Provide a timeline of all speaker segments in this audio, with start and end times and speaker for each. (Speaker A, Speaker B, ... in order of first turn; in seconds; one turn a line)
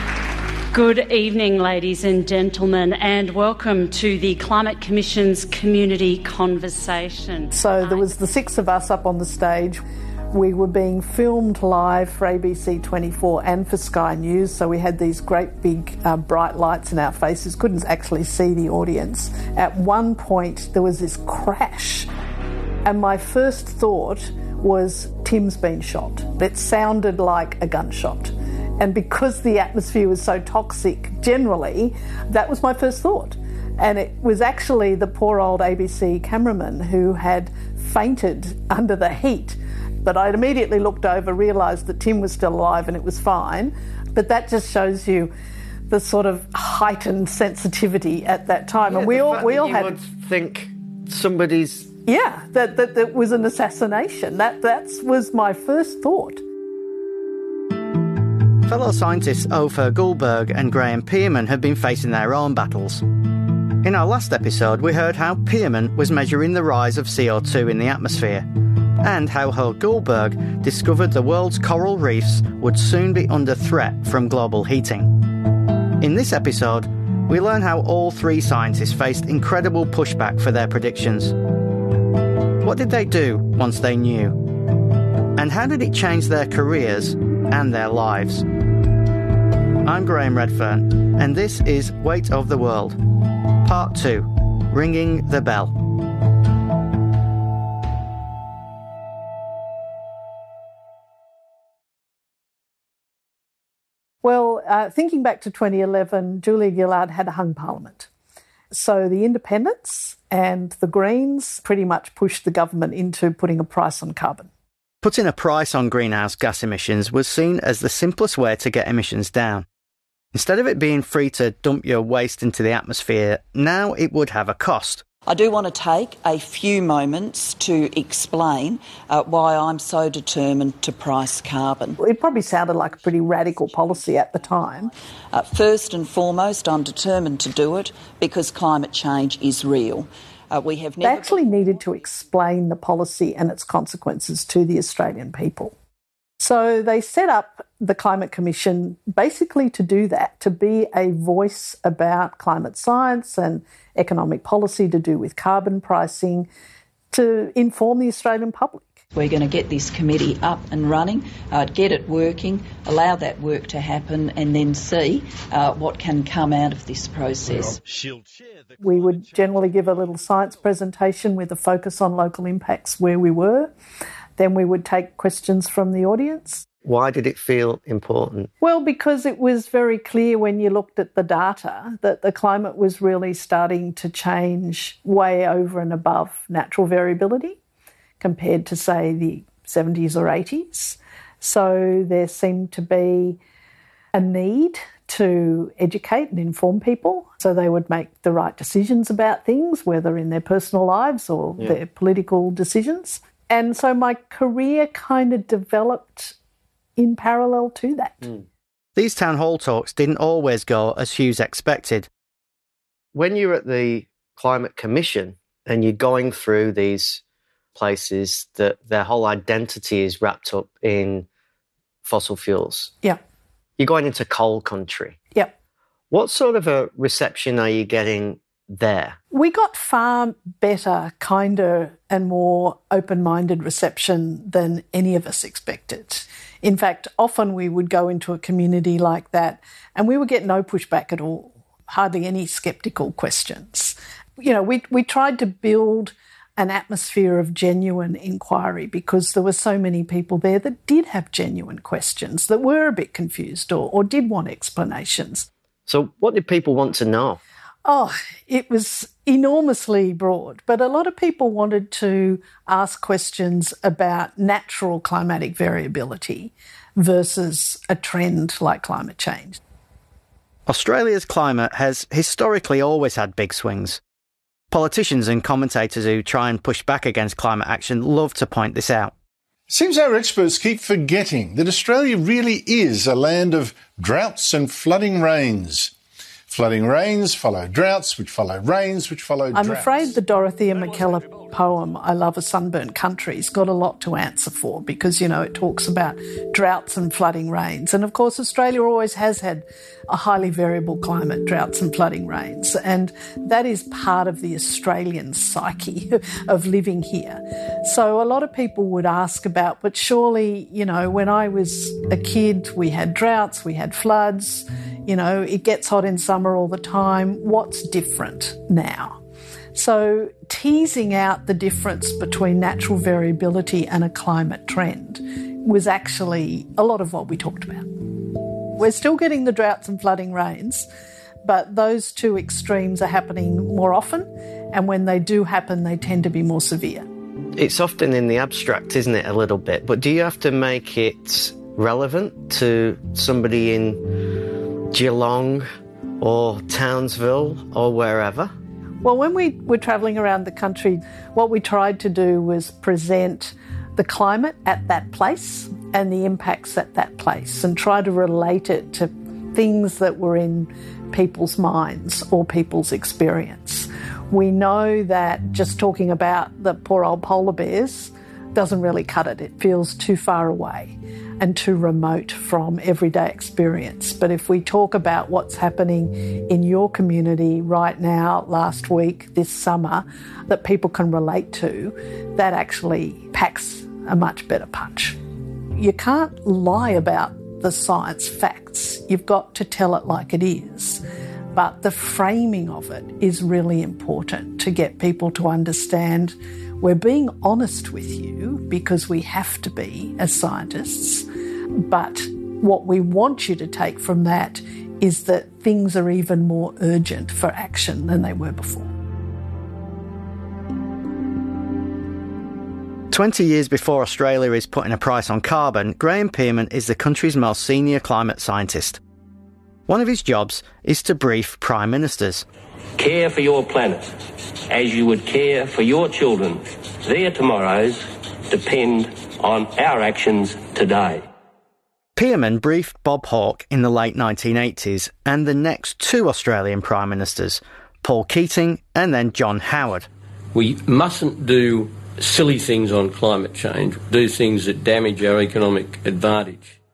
Speaker A: 0.7-8.1
Speaker B: 7.5-22.1
Speaker B: 22.8-45.3
Speaker B: 45.9-49.9
Speaker C: 48.9-51.9
Speaker B: 52.1-56.4
Speaker D: 58.6-63.0
Speaker D: 63.8-68.5
Speaker D: 69.0-75.1
Speaker D: 76.0-81.3
Speaker D: 82.6-84.4
Speaker D: 85.3-88.4
Speaker D: 89.8-93.0
Speaker D: 93.6-95.7
Speaker B: 104.2-108.1
Speaker B: 108.7-114.5
Speaker D: 115.0-119.7
Speaker D: 120.3-125.0
Speaker E: 125.3-132.0
Speaker B: 132.0-134.9
Speaker E: 133.5-141.9
Speaker B: 141.0-145.7
Speaker B: 146.4-156.5
Speaker B: 157.1-158.9
Speaker E: 159.1-167.8
Speaker B: 168.8-173.7
Speaker B: 174.4-176.6
Speaker C: 176.8-178.5
Speaker B: 178.6-187.6
Speaker B: 188.2-193.4
Speaker B: 194.1-206.3
Speaker B: 207.0-208.3
Speaker D: 208.9-212.1
Speaker C: 213.1-217.2
Speaker C: 217.8-221.3
Speaker C: 222.0-222.9
Speaker C: 223.8-225.2
Speaker C: 226.1-229.2
Speaker B: 229.3-255.5
Speaker C: 255.9-257.4
Speaker B: 257.8-269.6
Speaker D: 270.7-274.0
Speaker D: 274.7-279.1
Speaker F: 279.7-285.9
Speaker F: 286.5-290.1
Speaker B: 289.5-319.2
Speaker B: 319.7-327.9
Speaker B: 328.8-330.9
Speaker B: 331.4-337.1
Speaker C: 337.6-344.0
Speaker C: 344.9-345.7
Speaker C: 346.2-348.5
Speaker B: 349.0-385.2
Speaker B: 385.8-391.0
Speaker B: 391.5-401.2
Speaker B: 401.8-408.9
Speaker D: 413.1-419.0
Speaker D: 419.9-422.4
Speaker G: 423.0-424.0
Speaker G: 424.7-431.2
Speaker D: 432.1-440.1
Speaker H: 440.5-446.8